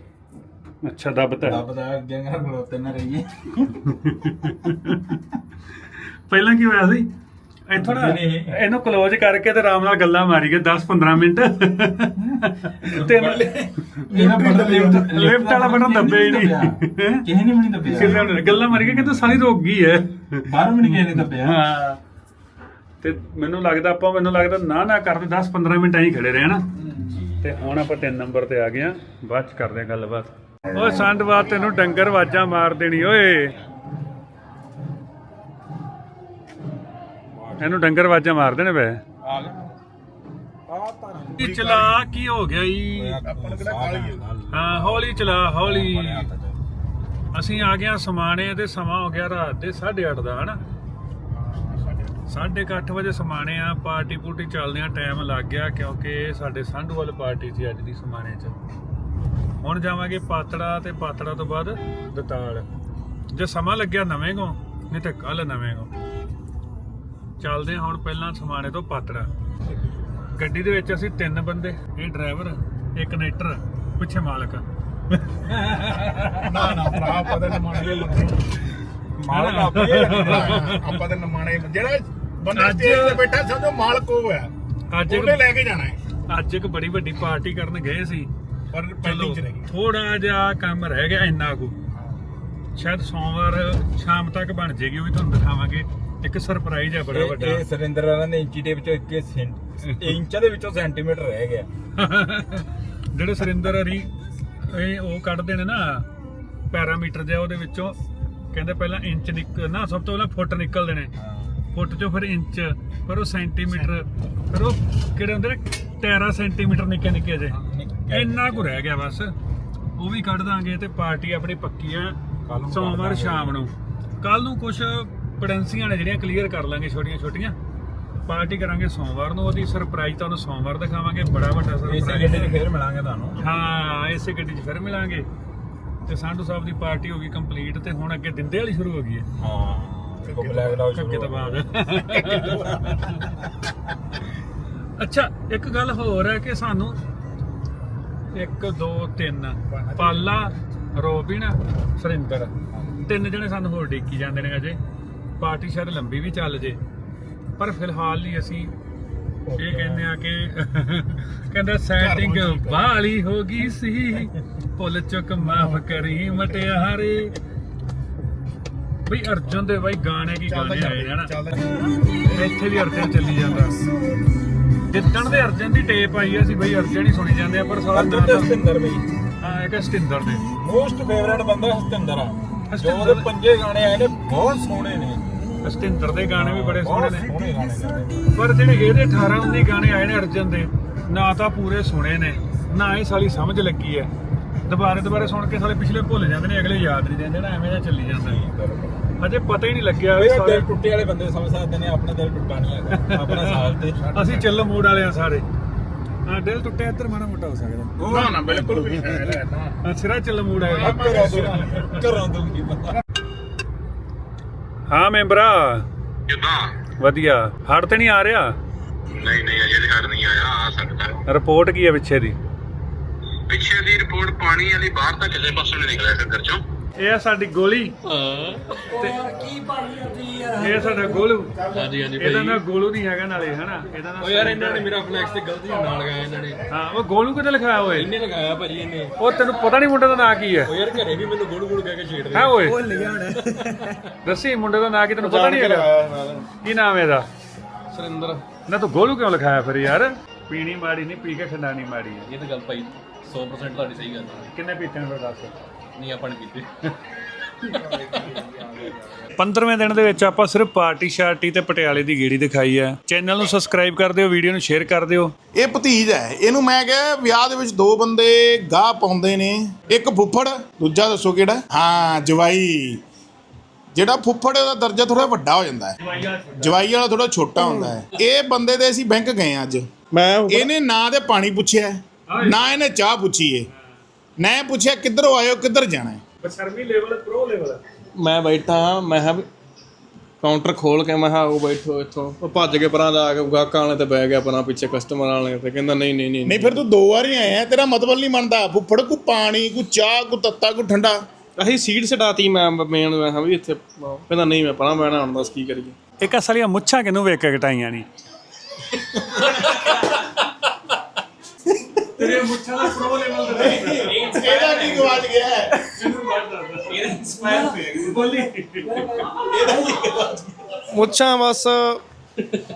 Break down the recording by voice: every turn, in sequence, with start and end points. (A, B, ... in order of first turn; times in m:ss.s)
0:00.8-0:01.6 A
0:01.4-0:03.8 B
0:03.9-0:05.2 A
0:06.3-0:07.1 A
0:07.7-0:17.2 A
0:07.8-0:08.6 B
0:12.8-0:19.4 B
0:17.9-0:22.0 A
0:20.5-0:21.6 B
0:23.0-0:26.6 A
0:26.8-0:27.3 B
0:27.4-0:33.6 A
0:37.4-0:37.8 B
0:37.6-0:39.0 A
0:39.2-0:39.5 B
0:40.7-0:41.3 B
0:41.4-0:42.0 C
0:41.4-0:43.2 A
0:42.9-0:46.6 B
0:43.2-0:44.2 C
0:44.5-0:46.3 A
0:47.3-0:50.6 A
0:51.3-0:52.2 C
0:52.3-0:58.5 A
0:59.6-1:02.7 A
1:03.3-1:05.9 A
1:07.4-1:09.3 A
1:10.3-1:14.6 A
1:15.3-1:16.5 A
1:16.4-1:18.4 C
1:19.2-1:20.9 A
1:19.2-1:24.5 C
1:22.5-1:23.2 A
1:24.9-1:25.4 A
1:25.1-1:26.0 C
1:26.3-1:28.3 A
1:28.7-1:29.7 C
1:29.0-1:31.7 A
1:32.8-1:37.6 A
1:37.1-1:41.7 B
1:42.0-1:44.1 A
1:44.6-1:46.1 A
1:46.7-1:48.0 A
1:48.5-1:51.1 A
1:51.2-1:51.6 B
1:51.7-1:57.6 A
1:57.5-1:58.7 B
1:58.1-1:59.3 A
2:00.0-2:07.6 A
2:02.4-2:03.6 B
2:08.2-2:12.6 A
2:11.8-2:13.4 B
2:13.4-2:15.3 A
2:16.0-2:19.2 A
2:19.4-2:21.7 B
2:20.2-2:20.8 C
2:20.9-2:23.3 A
2:22.3-2:23.3 B
2:25.0-2:27.0 A
2:28.3-2:34.8 A
2:29.7-2:30.4 C
2:35.4-2:36.8 A
2:37.6-2:38.7 A
2:39.4-2:40.1 B
2:39.5-2:47.3 A
2:42.0-2:42.8 C
2:49.0-2:51.3 A
2:50.4-2:51.7 C
2:52.3-2:53.8 A
2:54.9-2:58.5 A
2:57.9-2:59.1 B
2:59.4-3:00.4 A
3:00.5-3:05.4 B
3:02.7-3:03.3 A
3:05.6-3:07.3 A
3:06.3-3:08.3 B
3:08.3-3:14.1 A
3:14.6-3:18.4 A
3:18.2-3:19.2 B
3:19.2-3:20.7 A
3:20.1-3:24.1 B
3:22.9-3:25.4 A
3:24.0-3:24.6 C
3:26.2-3:28.0 A
3:28.0-3:28.6 B
3:28.0-3:29.8 C
3:29.8-3:31.3 A
3:30.6-3:31.8 C
3:30.7-3:33.0 B
3:34.9-3:35.8 A
3:36.3-3:36.7 D
3:37.0-3:38.5 A
3:39.1-3:41.2 D
3:41.3-3:42.4 A
3:43.5-3:46.6 D
3:47.0-3:47.9 A
3:48.1-3:48.6 E
3:50.5-3:51.6 A
3:51.7-3:52.6 E
3:52.2-3:54.9 A
3:54.2-3:56.5 B
3:54.4-3:56.5 E
3:56.7-3:58.1 A
3:58.0-3:59.1 B
3:59.2-4:00.7 A
4:00.7-4:03.6 B
4:00.8-4:01.1 E
4:02.3-4:02.8 A
4:04.2-4:05.9 A
4:05.2-4:06.5 F
4:06.6-4:07.2 A
4:07.9-4:08.4 F
4:08.6-4:12.3 A
4:12.3-4:14.4 E
4:14.5-4:15.5 A
4:16.0-4:16.7 E
4:19.3-4:25.3 A
4:25.5-4:33.0 C
4:33.9-4:36.0 C
4:36.0-4:36.8 A
4:36.6-4:39.9 C
4:37.6-4:38.0 F
4:40.1-4:40.7 F
4:40.5-4:43.7 C
4:42.3-4:42.6 A
4:44.4-4:46.2 C
4:46.4-4:47.8 A
4:48.2-4:49.5 F
4:50.4-4:56.8 F
4:56.4-5:01.2 C
5:01.6-5:06.0 F
5:06.2-5:08.1 A
5:09.4-5:09.9 E
5:12.0-5:14.4 A
5:13.8-5:15.2 F
5:14.2-5:15.8 C
5:15.9-5:17.0 A
5:16.9-5:18.1 F
5:17.9-5:19.2 A
5:19.4-5:20.2 F
5:20.7-5:22.0 F